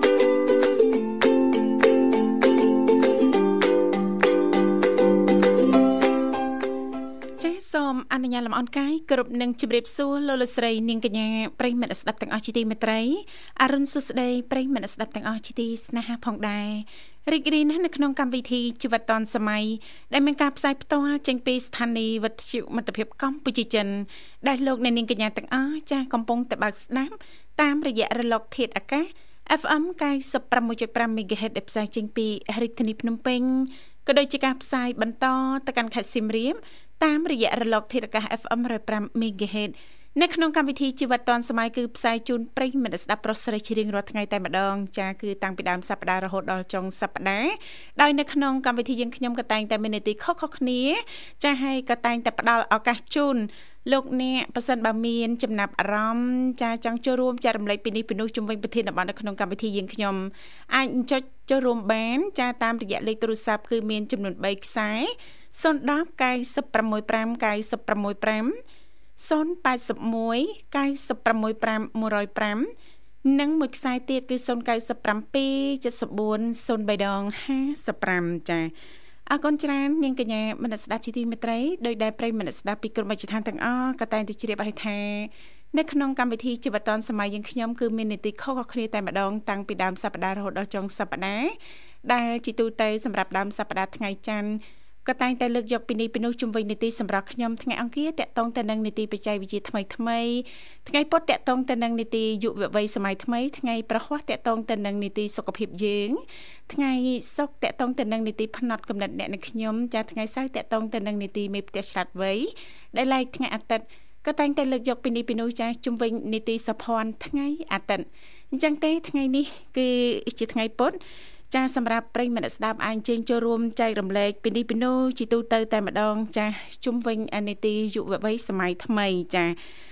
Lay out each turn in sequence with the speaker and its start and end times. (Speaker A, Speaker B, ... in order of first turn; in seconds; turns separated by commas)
Speaker A: 7.4-68.5, Speaker A: 69.2-72.7, Speaker A: 73.2-78.7, Speaker A: 79.3-91.5, Speaker A: 92.0-121.0, Speaker A: 121.5-129.6